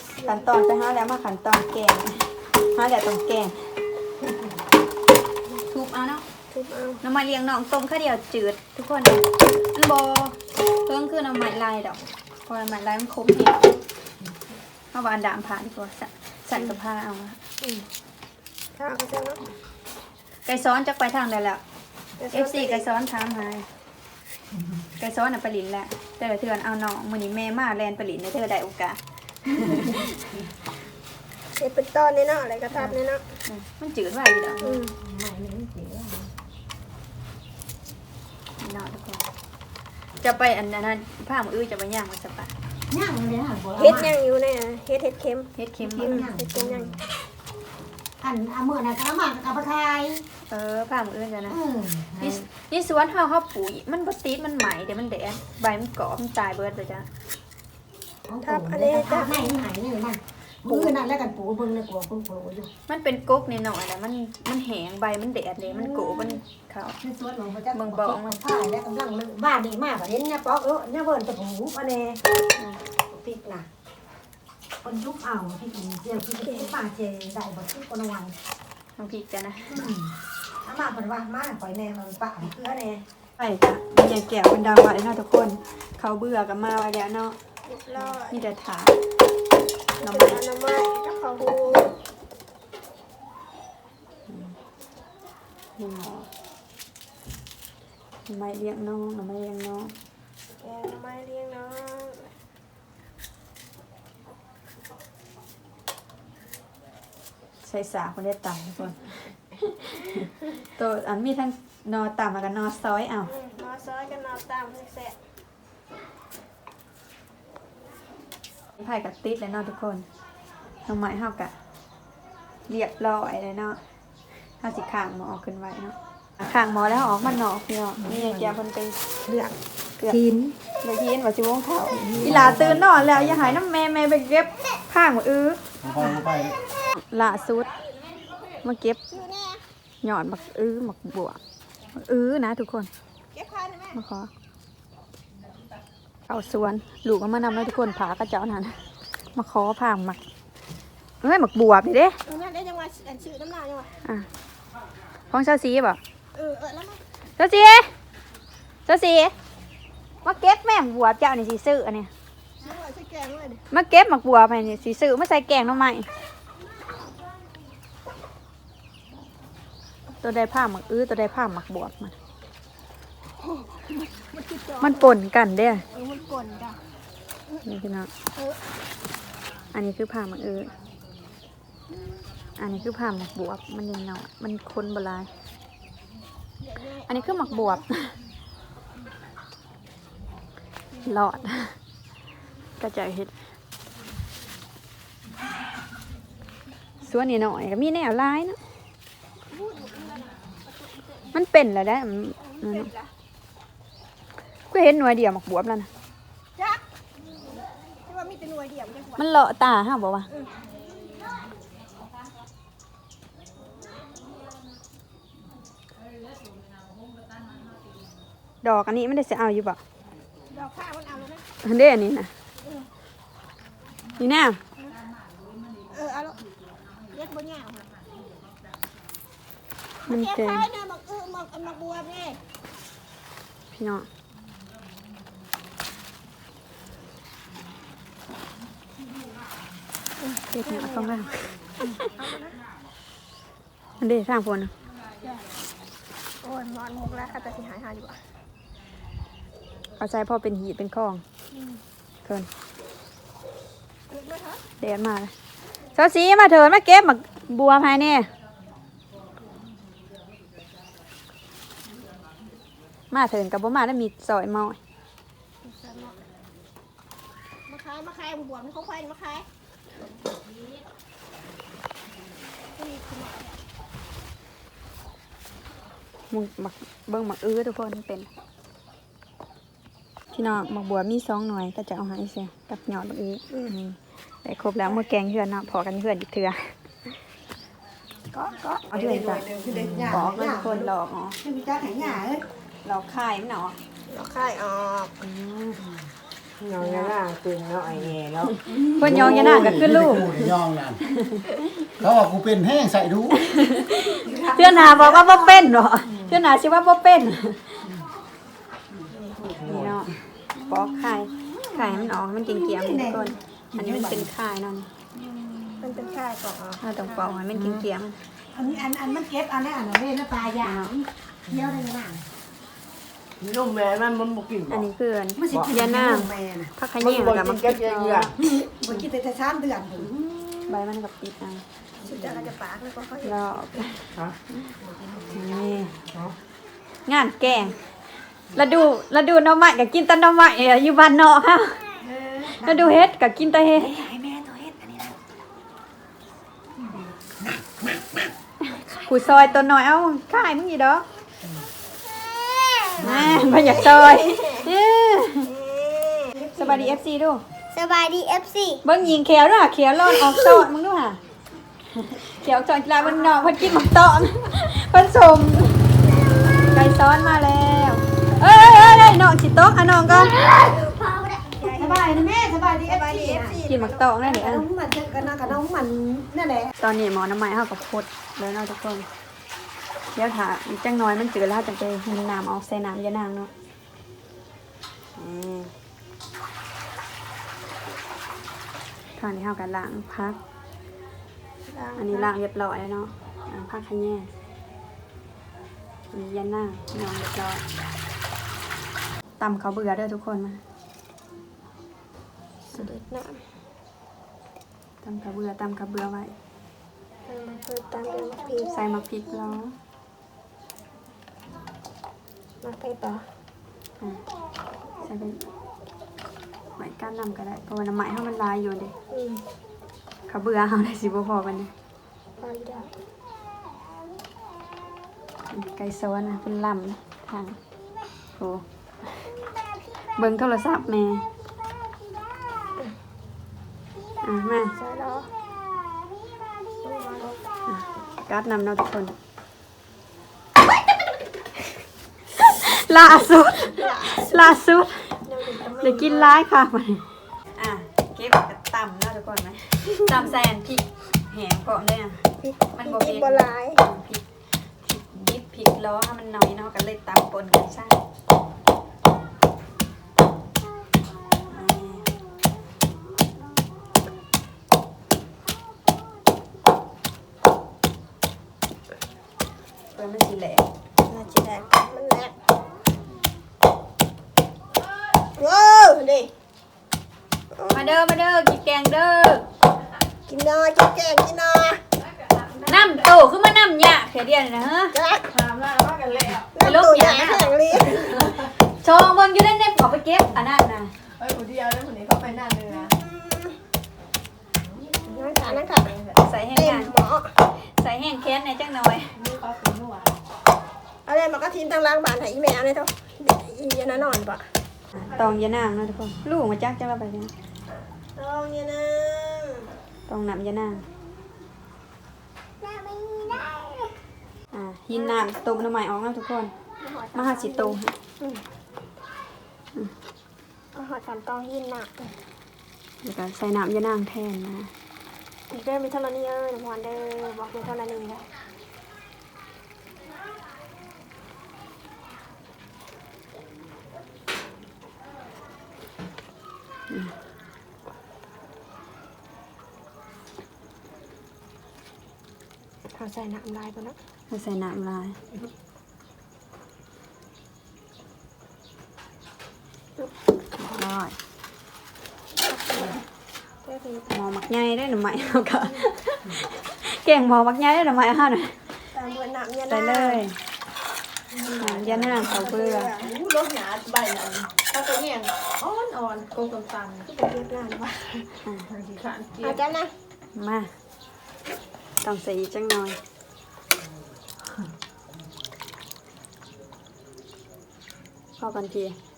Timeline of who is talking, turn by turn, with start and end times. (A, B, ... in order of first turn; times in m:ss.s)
0:00.2-0:03.6 A
0:05.7-0:06.2 A
0:06.5-0:07.0 B
0:07.0-0:13.8 A
0:14.9-0:17.4 A
0:18.8-0:19.4 B
0:20.5-0:21.6 A
0:22.2-0:22.9 B
0:22.3-0:23.7 A
0:25.0-0:30.1 A
0:31.6-0:33.4 B
0:33.5-0:34.8 A
0:34.6-0:35.0 B
0:35.0-0:36.3 C
0:38.6-0:39.2 A
0:40.2-0:42.5 A
0:42.9-0:44.2 C
0:43.8-0:47.0 B
0:45.6-0:46.3 A
0:45.8-0:46.9 C
0:48.2-0:50.2 C
0:50.5-0:51.6 A
0:51.5-0:52.4 C
0:52.2-0:57.1 A
0:58.3-1:02.7 C
0:58.4-0:59.6 B
1:02.9-1:07.0 A
1:07.0-1:12.2 C
1:07.7-1:08.6 A
1:12.6-1:12.8 A
1:13.1-1:13.7 C
1:14.8-1:18.4 C
1:19.0-1:19.9 A
1:19.7-1:20.1 C
1:20.6-1:23.0 C
1:23.4-1:27.4 A
1:27.7-1:28.4 B
1:28.3-1:29.0 A
1:30.0-1:32.0 B
1:30.0-1:30.4 A
1:34.3-1:34.6 A
1:35.8-1:36.3 A
1:38.3-1:39.9 A
1:40.6-1:42.3 B
1:47.6-1:53.3 A
1:53.2-1:55.2 B
1:58.8-2:00.1 A
2:00.9-2:01.5 A
2:02.7-2:03.8 A
2:04.5-2:09.0 A
2:08.0-2:08.5 C
2:09.3-2:09.5 C
2:10.1-2:10.6 C
2:10.8-2:15.6 A
2:12.0-2:12.4 C
2:12.3-2:13.1 D
2:15.8-2:16.6 D
2:16.9-2:17.7 A
2:18.6-2:19.0 A
2:19.1-2:19.6 B
2:20.0-2:21.4 A
2:21.9-2:22.9 A
2:23.3-2:24.0 B
2:23.9-2:24.3 A
2:26.3-2:28.8 A
2:29.4-2:30.2 A
2:31.2-2:32.2 A
2:32.3-2:33.9 B
2:35.3-2:36.0 A
2:36.4-2:37.0 B
2:37.4-2:37.9 A
2:38.9-2:39.3 A
2:40.2-2:42.1 A
2:42.6-2:43.6 B
2:43.7-2:46.1 A
2:50.2-2:52.2 A
2:53.5-2:55.1 B
2:54.8-2:55.8 A
2:55.9-2:56.8 B
2:57.6-2:58.1 A
2:59.7-3:00.7 A
3:02.6-3:05.3 A
3:06.6-3:07.8 B
3:07.1-3:08.1 A
3:11.0-3:11.8 A
3:12.8-3:13.3 A
3:17.0-3:18.6 A
3:19.5-3:21.0 B
3:21.3-3:22.9 A
3:22.5-3:23.1 B
3:24.7-3:25.9 A
3:28.1-3:29.3 B
3:29.2-3:30.3 A
3:38.6-3:39.8 A
3:40.5-3:41.4 B
3:41.6-3:42.3 A
3:44.2-3:44.6 A
3:45.9-3:46.5 B
3:47.1-3:47.8 B
3:50.1-3:50.7 A
3:50.1-3:52.4 B
3:53.7-3:54.1 A
4:00.2-4:02.6 B
4:00.5-4:01.6 A
4:04.0-4:04.7 A
4:06.4-4:08.2 B
4:10.0-4:11.2 A
4:11.5-4:11.8 B
4:14.1-4:14.6 B
4:14.8-4:15.3 A
4:15.9-4:18.3 A
4:23.1-4:24.8 A
4:25.6-4:26.2 B
4:27.7-4:29.5 B
4:32.8-4:33.6 B
4:36.3-4:38.3 A
4:40.3-4:46.8 A
4:48.4-4:49.5 A
4:48.9-4:52.4 C
4:50.0-4:51.4 A
4:52.8-4:53.8 A
4:54.1-4:55.2 B
4:55.3-4:55.8 C
4:56.6-4:59.3 C
4:56.8-4:57.2 A
4:58.9-5:00.5 A
4:59.0-5:01.0 D
5:01.1-5:01.6 A
5:02.0-5:03.3 D
5:03.3-5:07.8 A
5:04.2-5:05.7 C
5:09.2-5:09.7 C
5:09.6-5:14.9 A
5:11.7-5:14.3 C
5:15.8-5:17.4 B
5:16.8-5:18.2 A
5:18.5-5:22.2 C
5:20.6-5:20.9 A
5:23.4-5:24.7 E
5:24.7-5:28.4 A
5:25.4-5:26.7 C
5:27.0-5:28.3 E
5:28.4-5:30.5 C
5:30.7-5:31.6 A
5:32.0-5:33.6 B
5:33.2-5:34.1 A
5:35.3-5:36.0 A
5:37.1-5:37.8 A
5:38.5-5:41.8 A
5:42.0-5:43.0 C
5:42.6-5:44.0 A
5:43.8-5:45.1 C
5:47.3-5:48.2 C
5:49.0-5:51.0 A
5:52.5-5:54.7 B
5:53.0-5:55.5 A
5:55.4-5:56.4 B
5:56.5-5:57.0 C
5:56.6-5:57.4 A
5:57.7-5:58.8 B
5:58.8-6:01.2 A
6:02.0-6:05.8 A
6:03.1-6:03.8 B
6:06.6-6:10.4 A
6:10.4-6:13.6 C
6:11.4-6:14.0 B
6:13.7-6:14.7 A
6:14.2-6:16.7 C
6:16.8-6:19.1 A
6:20.2-6:23.5 A
6:25.2-6:25.6 A
6:29.2-6:30.4 A
6:32.0-6:34.3 A
6:36.1-6:37.6 A
6:39.4-6:40.6 A
6:42.7-6:43.4 B
6:45.0-6:46.3 A
6:47.3-6:48.8 B
6:48.6-6:49.8 A
6:52.6-6:53.3 B
6:55.0-6:55.4 A
6:56.8-6:58.9 A
6:59.1-6:59.4 B
7:00.3-7:01.7 A
7:02.4-7:02.9 B
7:05.5-7:07.6 A
7:08.4-7:08.6 A
7:10.2-7:11.2 A
7:14.2-7:14.7 A
7:14.7-7:15.3 B
7:16.8-7:17.4 B
7:17.7-7:19.1 A
7:22.4-7:25.2 A
7:23.7-7:24.6 B
7:25.2-7:26.4 B
7:25.8-7:32.2 A
7:32.4-7:33.8 B
7:32.8-7:34.2 A
7:34.8-7:38.0 A
7:41.5-7:42.1 A
7:49.9-7:50.6 A
7:51.1-7:52.3 B
7:55.4-7:56.3 B
7:57.6-7:57.9 B
7:57.7-7:59.4 A
8:00.3-8:01.8 B
8:02.1-8:02.8 E
8:02.6-8:05.0 A
8:04.9-8:05.3 B
8:05.3-8:06.6 E
8:06.5-8:08.3 B
8:06.6-8:10.9 A
8:11.2-8:13.0 E
8:12.7-8:13.6 B
8:15.1-8:15.9 B
8:15.2-8:16.2 E
8:16.2-8:16.9 A
8:16.5-8:17.3 B
8:17.5-8:19.1 A
8:19.2-8:20.2 E
8:21.1-8:24.4 B
8:25.0-8:27.3 A
8:28.2-8:29.7 B
8:30.1-8:30.8 A
8:32.6-8:33.9 B
8:34.5-8:36.5 A
8:34.9-8:35.3 B
8:36.8-8:38.4 B
8:37.2-8:38.0 A
8:40.7-8:42.2 B
8:43.0-8:44.7 A
8:45.5-8:48.3 B
9:02.9-9:04.0 B
9:04.3-9:05.2 A
9:10.6-9:11.2 A
9:12.5-9:13.0 B
9:13.7-9:14.1 B
9:14.1-9:18.6 A
9:18.9-9:20.3 B
9:19.7-9:20.4 A
9:21.3-9:23.1 B
9:21.6-9:22.9 A
9:21.7-9:22.3 E
9:23.0-9:27.1 E
9:27.0-9:28.4 B
9:28.6-9:29.8 E
9:29.4-9:29.9 B
9:30.3-9:30.7 A
9:32.0-9:33.0 A
9:38.4-9:39.0 A